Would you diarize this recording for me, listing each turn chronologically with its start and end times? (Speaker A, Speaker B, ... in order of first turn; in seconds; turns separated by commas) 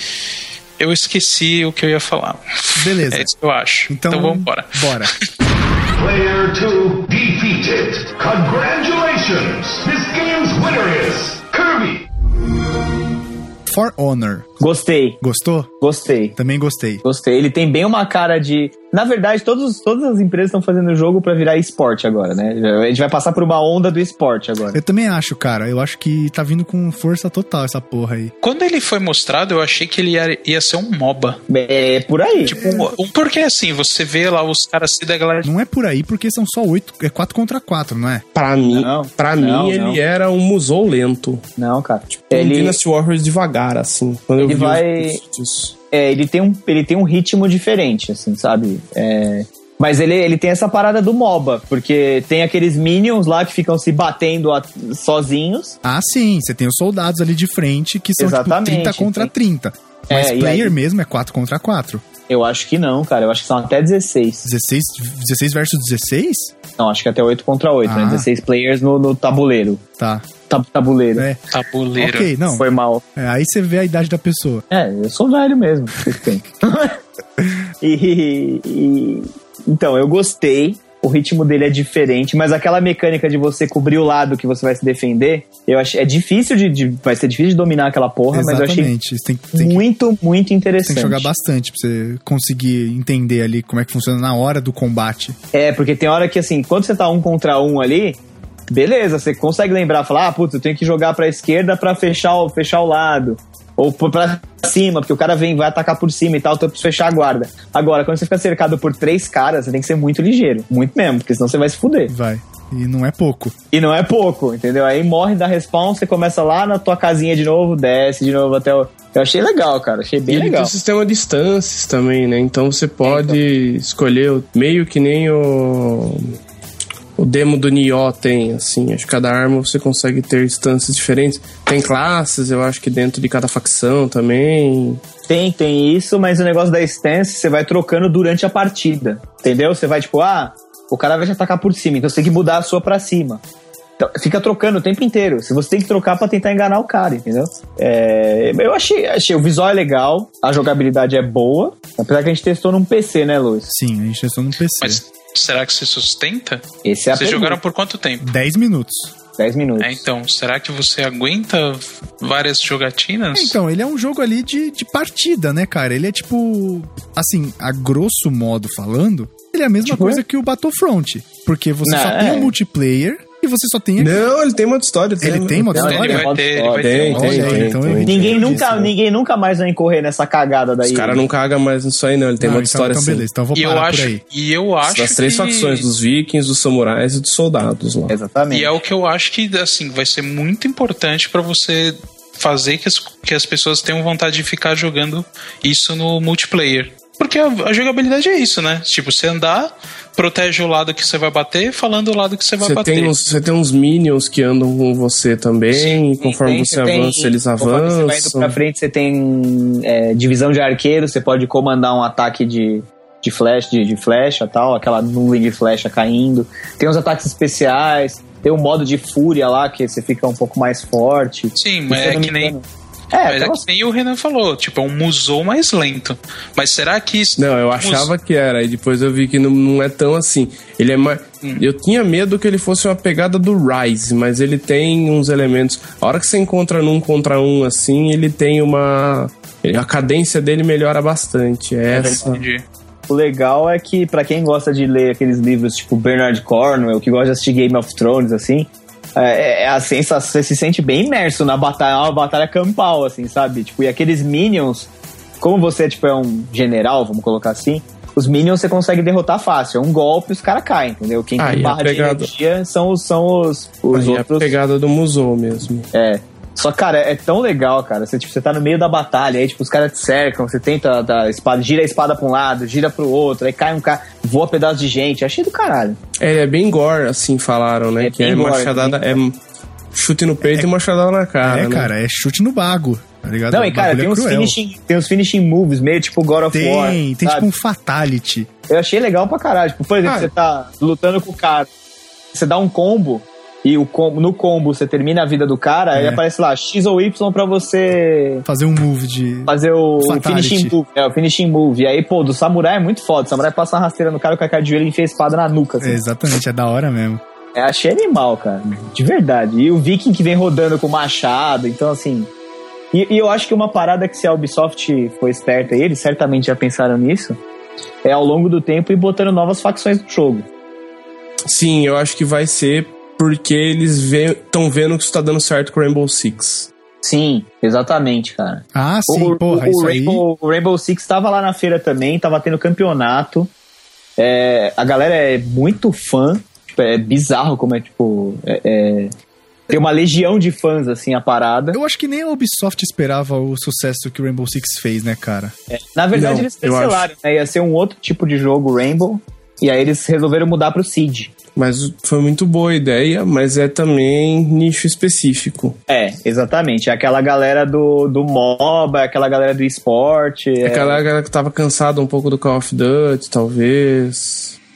Speaker A: 0.8-5.1, Speaker B: 2.8-3.3, Speaker B: 3.9-5.1, Speaker C: 5.9-12.1, Speaker B: 13.7-14.5, Speaker D: 14.6-15.2, Speaker B: 15.2-15.7, Speaker D: 15.8-16.4, Speaker B: 16.4-17.0, Speaker D: 17.0-24.8, Speaker B: 24.7-28.3, Speaker A: 28.4-31.4, Speaker D: 31.5-32.6, Speaker A: 32.4-35.5, Speaker B: 32.6-32.9, Speaker B: 35.4-38.2, Speaker E: 38.4-41.4, Speaker D: 38.7-40.0, Speaker D: 41.6-42.8, Speaker E: 42.1-45.7, Speaker D: 44.4-45.2, Speaker D: 45.9-55.8, Speaker B: 55.8-62.0, Speaker D: 58.2-59.3, Speaker D: 60.1-60.7, Speaker D: 62.3-64.5, Speaker B: 64.4-66.5, Speaker D: 66.8-69.8, Speaker B: 67.8-68.3, Speaker B: 70.0-70.3, Speaker D: 70.5-71.3, Speaker A: 71.5-72.3, Speaker B: 72.0-72.7, Speaker D: 72.5-73.0, Speaker B: 73.2-74.6, Speaker D: 74.7-77.0, Speaker D: 77.8-88.9, Speaker B: 88.3-89.8, Speaker D: 89.5-91.3, Speaker B: 90.8-95.4, Speaker D: 95.5-112.1, Speaker B: 112.1-113.5, Speaker D: 113.7-120.7, Speaker E: 120.3-126.4, Speaker D: 123.0-123.4, Speaker E: 127.2-135.0, Speaker D: 135.3-143.4, Speaker D: 144.0-153.7, Speaker B: 153.7-155.0, Speaker A: 154.8-158.3, Speaker D: 156.8-157.6, Speaker B: 158.2-159.1, Speaker D: 159.4-160.0, Speaker A: 159.8-163.6, Speaker B: 163.3-174.2, Speaker D: 169.8-170.2, Speaker D: 171.8-172.5, Speaker E: 174.0-176.2, Speaker B: 175.2-176.3, Speaker D: 175.7-181.3, Speaker A: 175.8-177.4, Speaker E: 176.7-178.9, Speaker B: 177.1-178.9, Speaker E: 180.8-183.3, Speaker B: 182.4-184.2, Speaker A: 183.5-185.9, Speaker E: 184.8-188.2, Speaker D: 188.1-188.8, Speaker A: 188.5-203.1, Speaker E: 202.6-208.6, Speaker D: 206.2-223.6, Speaker A: 221.6-222.6, Speaker A: 223.2-228.1, Speaker E: 227.4-242.4, Speaker D: 241.9-242.3, Speaker A: 242.2-242.7, Speaker D: 243.1-254.9, Speaker D: 255.4-264.5, Speaker E: 261.4-262.3, Speaker E: 263.9-265.9, Speaker D: 265.9-276.0, Speaker E: 276.2-279.4, Speaker D: 278.0-279.2, Speaker E: 279.9-281.9, Speaker B: 281.4-284.6, Speaker D: 283.5-287.5, Speaker B: 286.5-288.5, Speaker D: 288.7-291.7, Speaker E: 290.0-290.3, Speaker D: 292.3-298.4, Speaker B: 295.9-296.2, Speaker B: 298.4-300.8, Speaker D: 299.5-306.0, Speaker B: 305.8-307.2, Speaker D: 307.6-312.3, Speaker D: 312.9-317.4, Speaker D: 318.0-320.5, Speaker E: 321.5-326.7, Speaker D: 327.0-333.5, Speaker B: 328.7-330.2, Speaker D: 334.2-339.1, Speaker D: 339.7-341.8, Speaker B: 341.7-345.6, Speaker D: 345.7-351.3, Speaker E: 346.1-347.1, Speaker E: 351.6-355.8, Speaker D: 355.9-361.0, Speaker E: 360.6-364.6